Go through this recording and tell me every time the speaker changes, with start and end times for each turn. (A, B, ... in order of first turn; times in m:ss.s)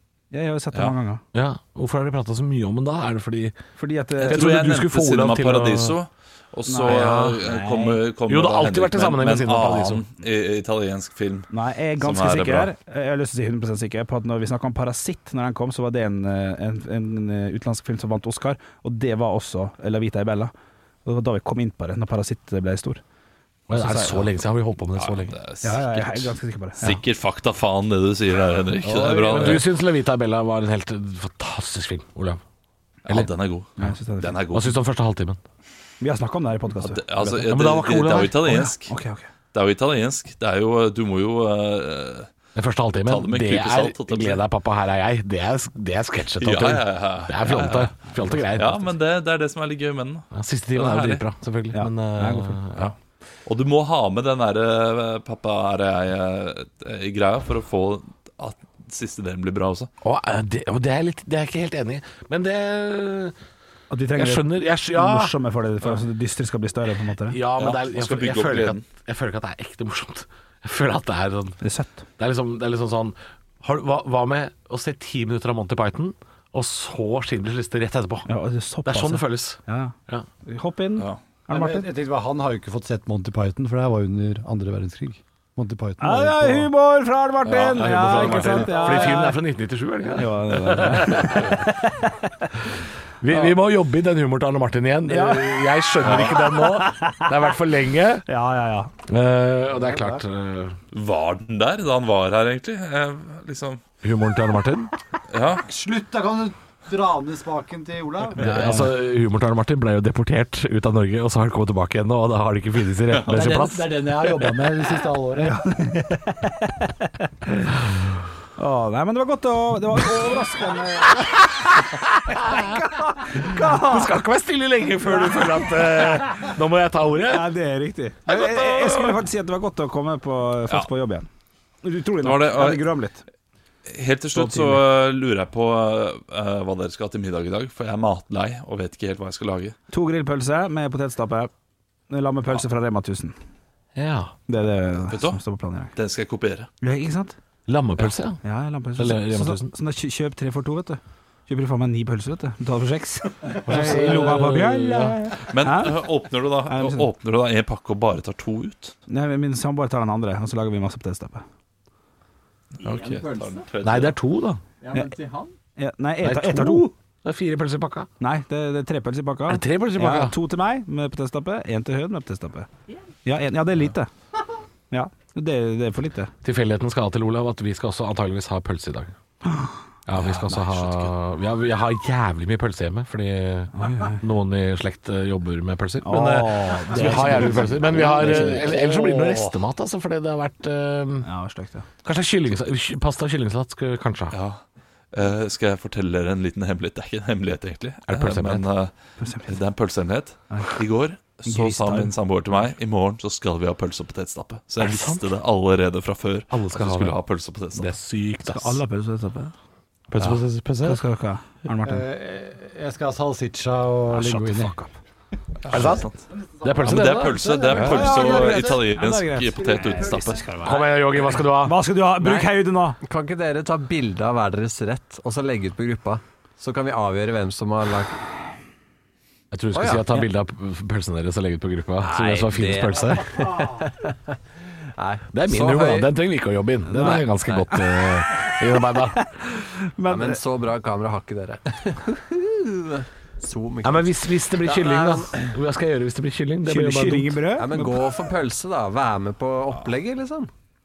0:00.3-0:01.2 A
0:01.3-0:03.6 B
0:03.8-0:04.6 A
0:04.2-0:12.7 C
0:04.3-0:06.0 B
0:06.7-0:08.0 A
0:06.8-0:07.4 B
0:08.3-0:10.0 B
0:11.5-0:20.5 A
0:21.0-0:23.0 A
0:23.7-0:25.4 B
0:23.7-0:24.3 A
0:25.0-0:29.7 C
0:25.6-0:27.0 A
0:28.8-0:32.4 B
0:33.0-0:34.8 C
0:33.8-0:34.4 A
0:34.5-0:35.4 B
0:36.0-0:37.5 A
0:36.8-0:39.0 C
0:37.5-0:38.7 B
0:38.5-0:39.3 A
0:39.5-0:42.3 C
0:42.6-0:48.9 B
0:43.0-0:44.4 C
0:46.4-0:51.2 C
0:50.3-0:52.9 B
0:51.7-0:52.6 A
0:53.5-0:59.9 C
1:00.0-1:03.4 B
1:03.9-1:07.4 A
1:04.2-1:05.4 B
1:07.3-1:11.6 B
1:07.6-1:08.8 C
1:11.6-1:12.0 A
1:12.2-1:18.3 B
1:18.3-1:21.9 A
1:18.8-1:20.3 B
1:21.5-1:26.7 D
1:26.0-1:29.4 A
1:27.4-1:29.1 C
1:27.7-1:31.6 B
1:30.1-1:32.5 A
1:33.2-1:38.3 B
1:33.3-1:33.5 A
1:35.1-1:37.5 A
1:38.3-1:38.9 A
1:39.1-1:40.8 B
1:39.7-1:40.2 D
1:40.9-1:43.8 C
1:44.0-1:44.9 B
1:45.3-1:45.6 C
1:45.7-1:48.6 D
1:48.4-1:49.0 A
1:48.4-1:54.4 B
1:53.3-1:55.6 D
1:55.4-1:57.8 A
1:58.6-2:04.2 A
2:01.1-2:07.5 B
2:05.2-2:05.6 A
2:07.3-2:11.3 A
2:08.3-2:09.2 B
2:11.8-2:13.2 A
2:12.2-2:12.9 C
2:13.9-2:19.8 C
2:14.4-2:14.8 A
2:19.9-2:21.5 A
2:22.1-2:23.4 A
2:24.0-2:24.4 B
2:24.5-2:25.9 A
2:25.1-2:25.4 C
2:26.0-2:26.7 C
2:26.8-2:27.4 A
2:27.7-2:28.4 B
2:28.4-2:36.1 A
2:29.0-2:29.7 B
2:33.6-2:35.2 B
2:35.5-2:39.0 C
2:36.7-2:37.1 A
2:39.1-2:41.4 A
2:42.8-2:44.2 C
2:42.8-2:43.6 E
2:43.8-2:44.6 B
2:44.8-2:45.5 E
2:45.8-2:46.9 A
2:46.2-2:48.1 B
2:48.2-2:52.7 A
2:49.5-2:50.4 B
2:53.2-2:54.1 A
2:54.9-2:56.3 A
2:56.4-2:59.1 B
2:59.5-2:59.7 A
3:00.1-3:11.3 B
3:00.2-3:01.1 C
3:03.8-3:04.2 A
3:06.0-3:09.5 A
3:11.2-3:11.9 A
3:12.0-3:14.4 B
3:14.3-3:14.6 C
3:15.1-3:18.9 C
3:18.1-3:18.6 B
3:19.2-3:19.6 A
3:19.5-3:27.9 C
3:20.5-3:20.8 A
3:21.5-3:22.1 A
3:24.8-3:25.3 B
3:26.5-3:27.2 B
3:27.8-3:28.8 B
3:28.4-3:29.5 A
3:30.1-3:31.0 B
3:30.2-3:30.4 C
3:30.8-3:32.1 A
3:31.8-3:34.8 D
3:34.1-3:34.9 A
3:35.7-3:36.2 C
3:35.7-3:36.1 B
3:36.4-3:38.9 D
3:36.6-3:37.8 B
3:36.8-3:40.5 C
3:37.7-3:43.0 A
3:39.6-3:40.6 D
3:40.6-3:42.5 B
3:43.0-3:48.2 E
3:49.5-3:53.6 B
3:49.7-3:50.3 E
3:52.0-3:54.4 E
3:55.0-3:56.2 E
3:55.3-3:59.2 B
3:56.9-3:57.2 A
3:57.0-3:57.7 E
3:59.4-4:00.4 A
4:00.1-4:05.5 E
4:03.8-4:07.4 B
4:06.6-4:08.2 A
4:07.6-4:10.5 E